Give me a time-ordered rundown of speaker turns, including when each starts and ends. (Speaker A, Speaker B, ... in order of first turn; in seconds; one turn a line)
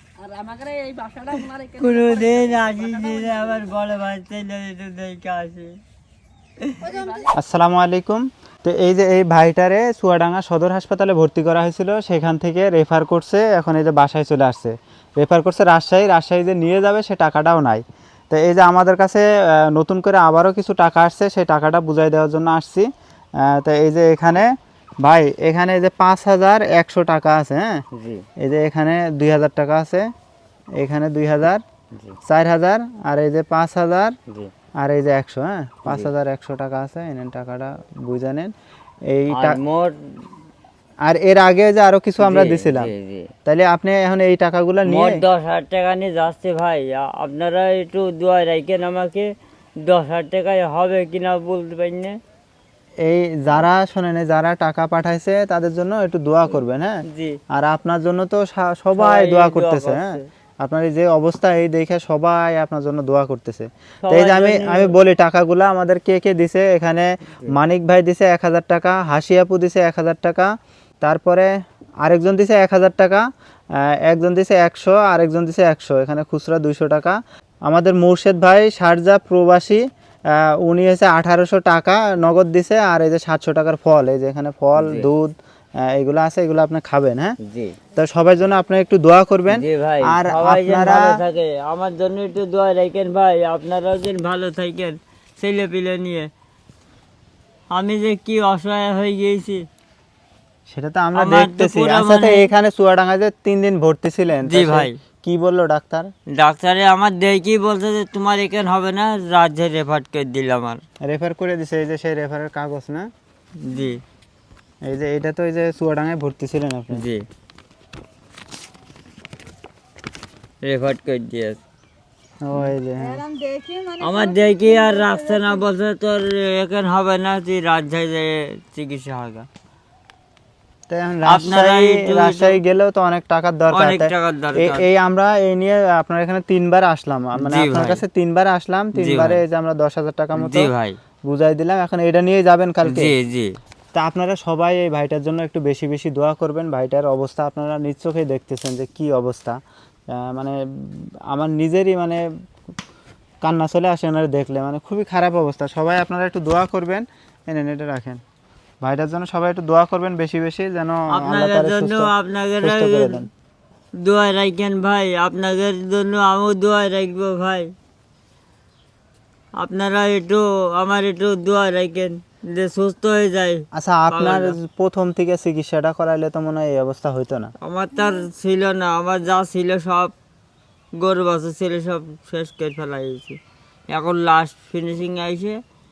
Speaker A: 0.2-3.4
Speaker B: 1.3-5.7
Speaker B: 6.6-7.1
Speaker A: 6.8-7.3
Speaker C: 7.3-27.8
Speaker B: 27.9-28.2
Speaker C: 28.4-30.1
Speaker C: 30.8-31.6
Speaker C: 32.2-34.1
Speaker C: 34.8-38.5
Speaker C: 39.1-39.6
Speaker B: 39.3-39.9
Speaker C: 41.0-42.9
Speaker B: 42.2-43.3
Speaker C: 43.5-45.2
Speaker B: 44.9-49.3
Speaker B: 49.8-52.2
Speaker C: 53.0-71.5
Speaker B: 57.1-57.4
Speaker B: 58.9-60.2
Speaker B: 64.0-64.9
Speaker C: 72.0-87.3
Speaker B: 84.8-85.1
Speaker B: 87.4-87.8
Speaker C: 88.0-91.1
Speaker B: 89.5-96.3
Speaker B: 97.7-99.6
Speaker C: 100.7-106.1
Speaker B: 101.1-102.5
Speaker B: 104.5-105.0
Speaker B: 106.3-110.8
Speaker C: 111.0-113.1
Speaker B: 113.6-114.0
Speaker C: 114.8-117.0
Speaker B: 116.9-117.2
Speaker B: 120.6-121.6
Speaker C: 122.4-123.2
Speaker A: 123.0-125.5
Speaker B: 124.0-129.5
Speaker C: 130.9-140.7
Speaker B: 131.2-132.6
Speaker B: 133.7-134.8
Speaker B: 137.4-138.0
Speaker B: 138.9-139.4
Speaker B: 140.4-141.0
Speaker C: 141.3-143.1
Speaker B: 142.8-143.5
Speaker C: 143.9-149.6
Speaker C: 150.1-152.2
Speaker C: 153.4-158.2
Speaker C: 158.8-163.3
Speaker B: 161.1-163.2
Speaker B: 164.0-167.7
Speaker B: 169.6-174.6
Speaker C: 173.7-177.5
Speaker B: 177.6-180.1
Speaker B: 181.0-185.6